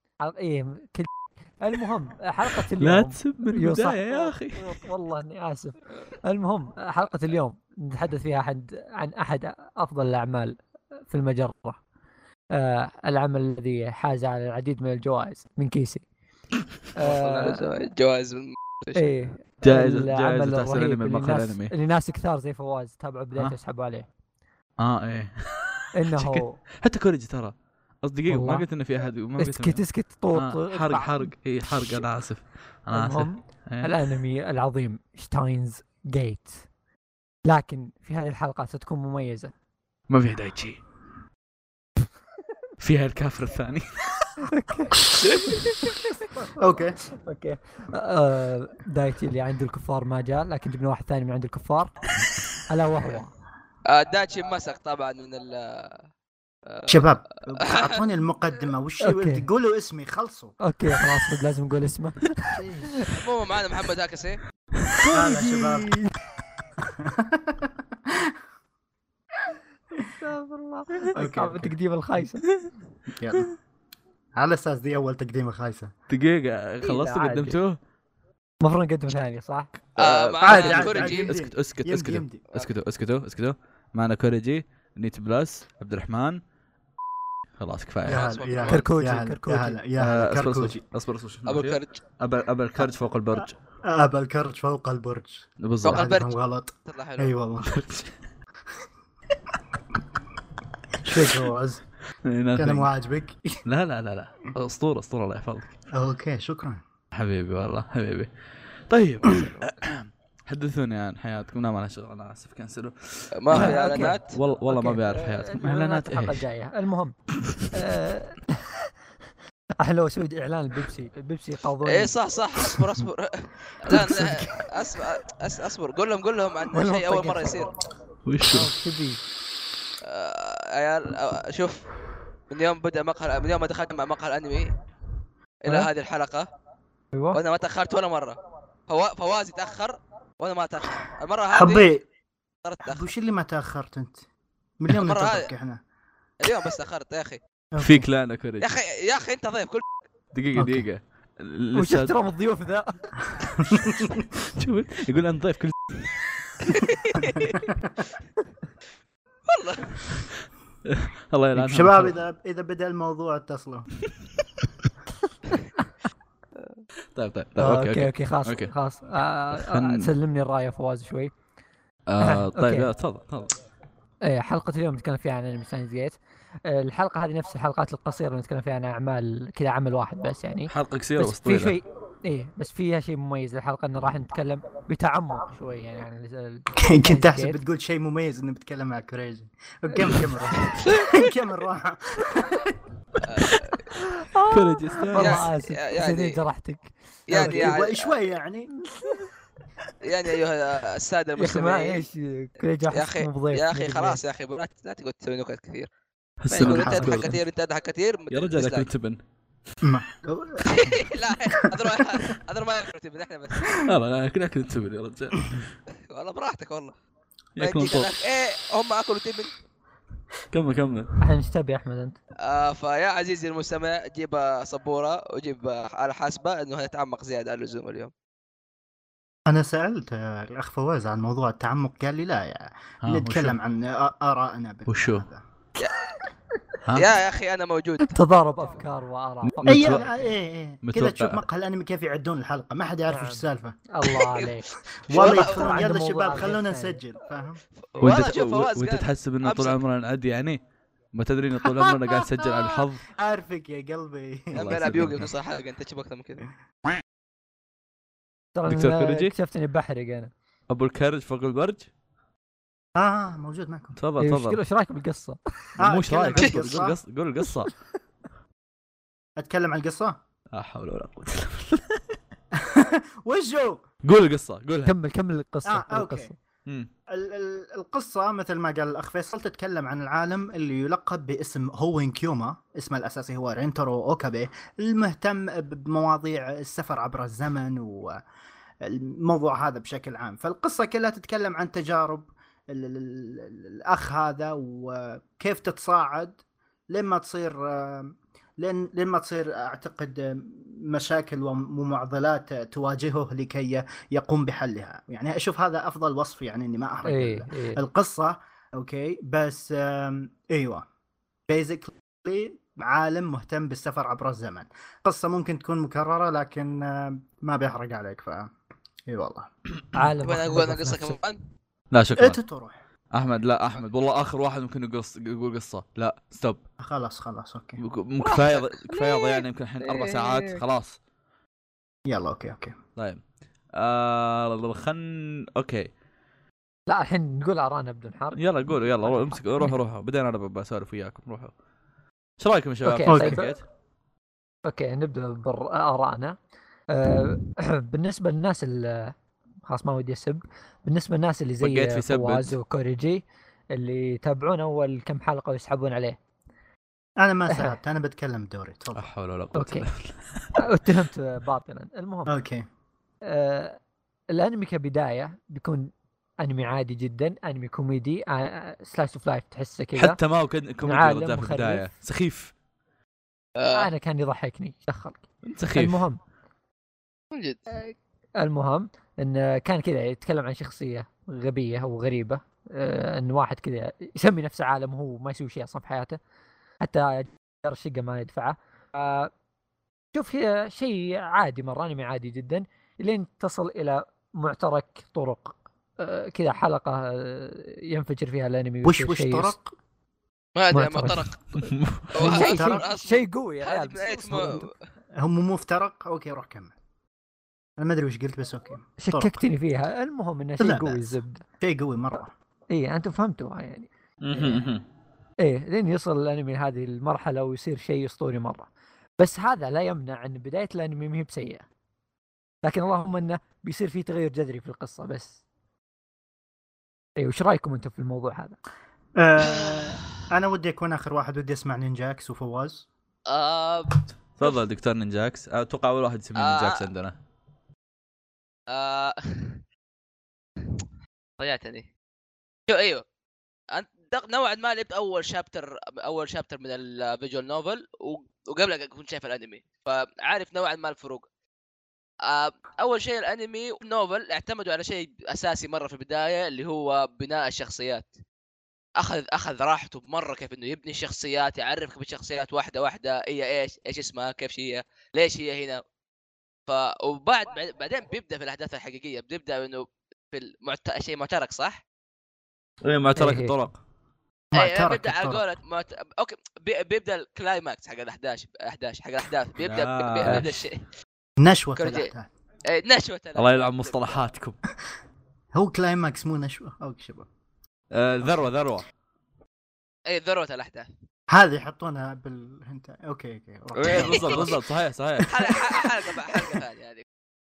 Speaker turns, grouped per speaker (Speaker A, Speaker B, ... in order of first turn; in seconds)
Speaker A: 0.2-10.6, 11.1-11.8, 12.5-16.1, 17.0-17.6, 18.9-24.1, 25.9-26.6, 28.3-28.7, 29.4-32.0, 32.9-36.6, 37.5-39.5, 44.4-46.0, 47.2-52.0, 52.7-53.3, 59.0-59.5, 60.6-63.1, 65.0-66.1, 70.1-72.5, 76.8-77.6, 78.6-79.7, 88.7-89.8, 113.5-117.1, 117.7-118.9, 119.8-122.1, 126.7-127.7, 128.4-129.2, 137.1-137.4, 151.7-153.1, 167.6-171.3, 172.2-172.9, 174.2-187.6, 189.9-190.3, 193.9-197.7, 198.9-199.3, 201.4-204.2, 221.2-222.2, 238.0-240.2, 243.1-247.0, 258.6-260.3, 264.2-265.4, 274.9-276.4, 307.1-307.8, 319.9-321.2, 336.9-339.8, 342.9-343.5, 344.7-346.4, 346.9-349.1, 349.7-356.2, 357.5-357.8, 359.6-359.9, 360.6-362.3, 363.2-363.8, 364.3-370.2, 370.8-371.9, 373.7-375.2, 375.7-376.2, 377.7-386.2, 386.8-389.3, 390.1-399.5, 400.7-404.7, 409.0-411.4, 412.7-413.9, 415.4-418.7, 419.2-421.7, 422.6-425.4, 427.2-428.6, 473.2-473.5
Speaker B: 2.8-4.7, 19.6-21.7, 24.8-33.9, 40.1-40.8, 42.8-44.3, 45.1-45.7, 76.1-77.8, 80.0-86.4, 87.6-88.3, 90.0-93.5, 95.6-96.2, 97.6-98.1, 102.2-102.9, 103.7-105.7, 107.1-108.3, 108.9-116.5, 123.9-124.3, 128.3-128.7, 147.8-148.7, 150.3-152.1, 154.5-156.2, 160.8-162.2, 167.1-168.7, 169.5-170.1, 172.1-173.5, 180.7-181.8, 194.5-195.5, 206.4-207.4, 208.3-209.2, 213.8-215.7, 217.6-218.1, 220.5-221.1, 233.0-233.6, 234.9-235.3, 239.4-240.1, 240.8-241.4, 248.0-250.6, 251.1-253.1, 254.5-255.3, 258.7-259.3, 260.7-261.9, 264.0-264.6, 265.8-267.8, 270.5-272.0, 274.0-274.9, 321.9-322.4, 323.1-326.6, 327.8-331.0, 333.0-333.2, 333.7-335.9, 338.4-341.5, 342.4-343.6, 351.6-352.6, 359.0-360.6, 370.0-372.5, 375.4-376.0, 401.6-402.1, 414.2-414.8, 434.4-437.1, 472.8-473.8, 479.6-480.5, 483.4-484.6, 487.9-488.9, 493.8-495.3
Speaker C: 17.0-19.0, 53.9-56.0, 56.7-57.0, 57.6-58.0, 63.1-64.4, 80.0-81.3, 88.1-88.8, 91.5-92.0, 95.8-96.3, 96.9-97.3, 113.4-114.4, 121.8-127.7, 130.0-131.9, 132.5-134.8, 135.6-136.5, 137.3-141.9, 142.6-143.1, 144.9-145.5, 146.4-147.4, 148.6-149.9, 156.7-157.5, 159.5-160.1, 190.8-191.2, 193.2-193.8, 195.1-196.4, 197.3-198.1, 200.0-202.0, 202.9-205.9, 206.5-208.9, 210.7-213.8, 216.1-217.0, 217.6-219.5, 222.4-228.1, 236.9-238.1, 245.1-245.8, 247.8-249.8, 254.6-256.5, 320.2-321.4, 328.2-330.6, 373.6-373.9, 377.3-377.6, 400.6-401.4, 402.1-404.7, 429.6-430.2, 433.3-434.6, 436.4-436.9, 438.7-439.6, 441.4-441.9, 442.7-443.0, 443.7-451.2, 452.2-458.1, 459.0-465.8, 466.7-471.8, 474.5-480.9, 481.8-482.1, 482.7-484.2, 490.1-490.9, 493.8-494.6, 495.3-497.0
Speaker D: 46.6-47.0, 56.9-60.6, 62.5-63.0, 65.1-65.9, 66.8-68.4, 71.2-71.7, 73.2-73.5, 74.4-75.9, 80.4-82.5, 88.1-90.8, 93.4-97.7, 101.0-101.8, 102.6-103.6, 105.9-106.8, 141.5-142.1, 142.8-144.2, 144.8-145.8, 147.7-148.1, 150.6-150.9, 153.4-154.3, 157.5-157.9, 161.6-163.9, 186.8-192.8, 197.3-198.7, 206.6-207.3, 209.8-212.3, 229.5-235.4, 239.7-243.8, 245.1-247.6, 251.7-255.2, 263.0-263.9, 265.8-267.0, 269.4-270.2, 272.5-273.8, 275.6-276.3, 277.1-288.2, 288.8-296.4, 296.9-310.9, 311.5-318.5, 319.1-319.5, 322.2-322.8, 326.8-327.8, 332.1-332.8, 343.1-343.5, 357.2-359.1, 362.3-362.7, 398.8-399.7, 402.2-402.9, 405.2-406.8, 407.8-409.4, 410.6-412.3, 429.2-432.9, 474.5-475.4, 481.4-482.3, 485.5-487.3, 491.3-494.6, 495.2-496.6